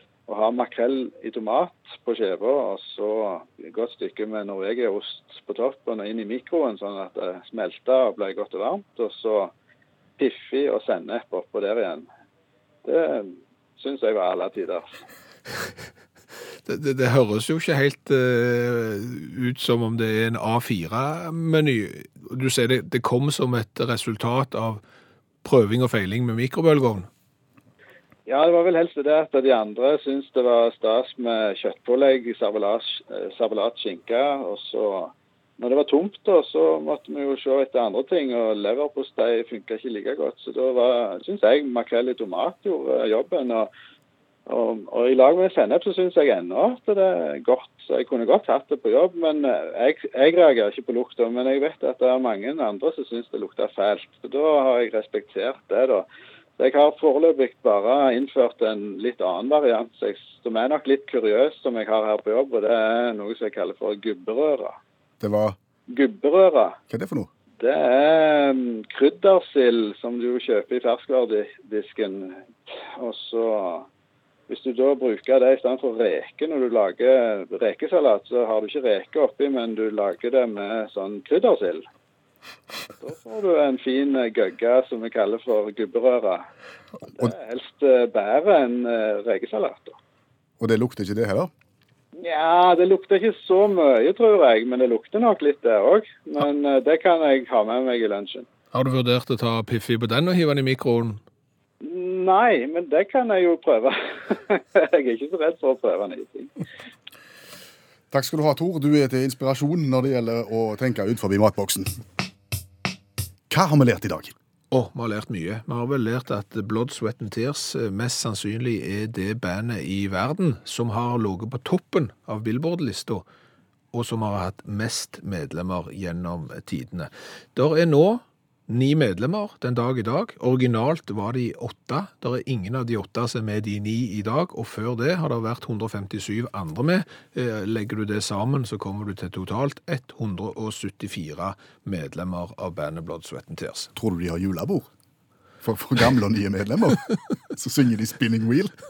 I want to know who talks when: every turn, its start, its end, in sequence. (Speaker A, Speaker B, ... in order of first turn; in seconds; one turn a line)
Speaker A: 0.3-9.5
Speaker A: 10.2-12.1
Speaker A: 12.8-14.9
Speaker B: 16.6-24.8
Speaker B: 25.4-27.1
Speaker A: 28.3-43.7
Speaker A: 44.5-56.1
Speaker A: 56.6-64.8
Speaker C: 65.2-65.6
Speaker A: 65.9-66.8
Speaker C: 66.9-67.3
Speaker A: 67.6-73.9
Speaker A: 74.5-81.9
Speaker A: 83.0-86.5
Speaker A: 87.1-90.0
Speaker C: 90.6-91.5
Speaker A: 92.2-98.5
Speaker B: 98.7-101.2
Speaker A: 101.8-106.5
Speaker C: 108.1-111.9
Speaker C: 113.5-114.3
Speaker B: 114.7-123.3
Speaker B: 123.9-143.9
Speaker C: 144.0-144.9
Speaker C: 145.6-148.8